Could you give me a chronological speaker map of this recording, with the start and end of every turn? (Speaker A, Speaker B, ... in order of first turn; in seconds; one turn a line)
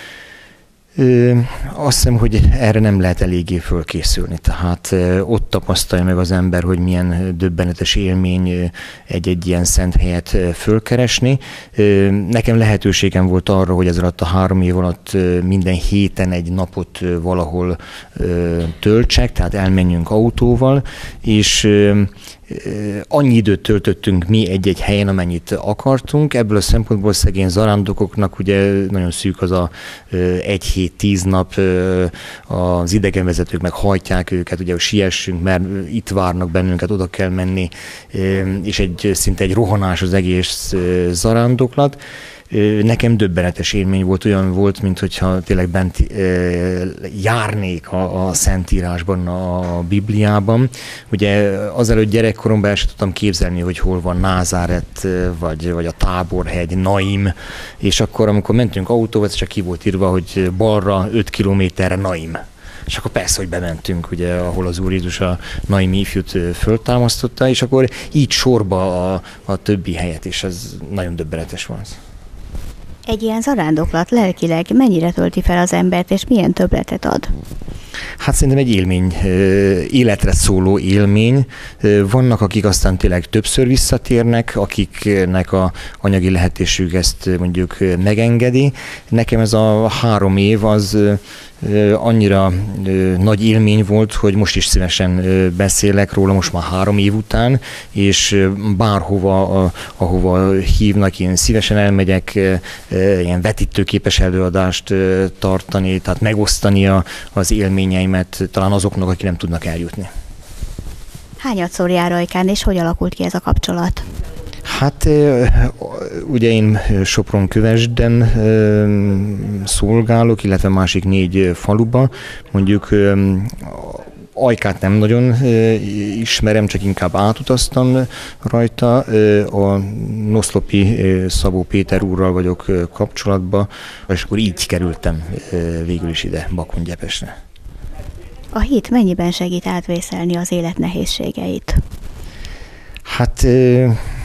Speaker A: 0.9-42.0
Speaker A: 42.5-72.0
Speaker B: 73.1-77.3
Speaker A: 78.2-110.1
Speaker B: 111.4-114.0
Speaker A: 114.6-137.3
Speaker B: 138.5-141.8
Speaker A: 143.1-144.0